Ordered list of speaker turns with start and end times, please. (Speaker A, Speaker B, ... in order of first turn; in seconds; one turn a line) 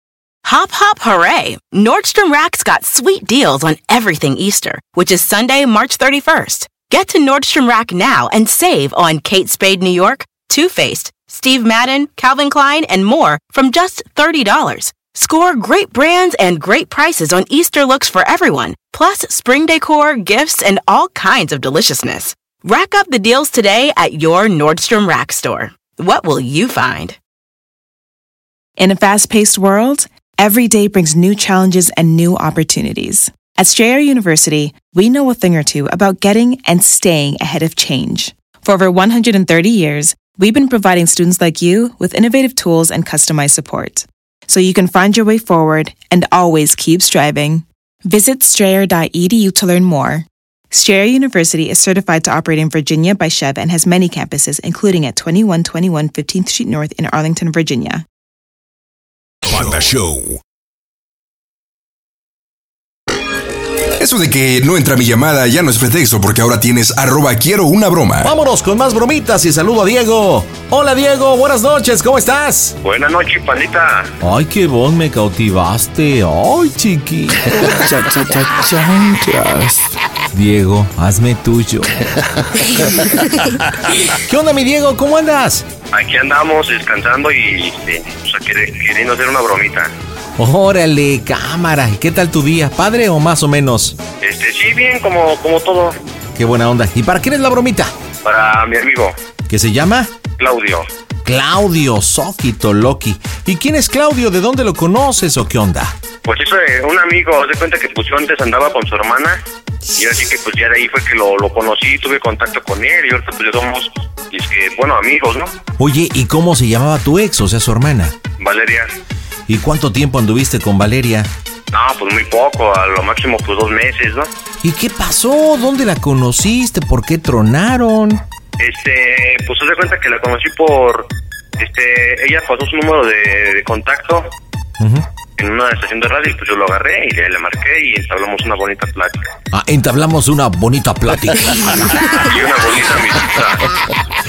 Speaker A: 0.4-27.2
Speaker B: 28.8-58.0
Speaker C: 59.5-60.4
Speaker C: 64.0-68.3
Speaker D: 68.2-72.8
Speaker E: 72.8-74.1
Speaker D: 74.2-78.0
Speaker D: 80.3-81.9
Speaker D: 84.1-85.7
Speaker E: 85.9-89.9
Speaker D: 90.4-94.0
Speaker E: 94.2-96.0
Speaker D: 96.3-97.9
Speaker E: 98.2-99.2
Speaker D: 99.5-100.1
Speaker E: 100.4-100.9
Speaker D: 101.2-106.0
Speaker E: 106.2-109.4
Speaker E: 110.0-115.5
Speaker D: 115.8-118.2
Speaker E: 118.4-118.9
Speaker D: 119.5-121.3
Speaker E: 121.7-124.3
Speaker D: 124.6-128.2
Speaker E: 128.6-134.3
Speaker D: 134.8-135.1
Speaker E: 135.4-139.3
Speaker D: 139.5-142.1
Speaker E: 142.2-143.6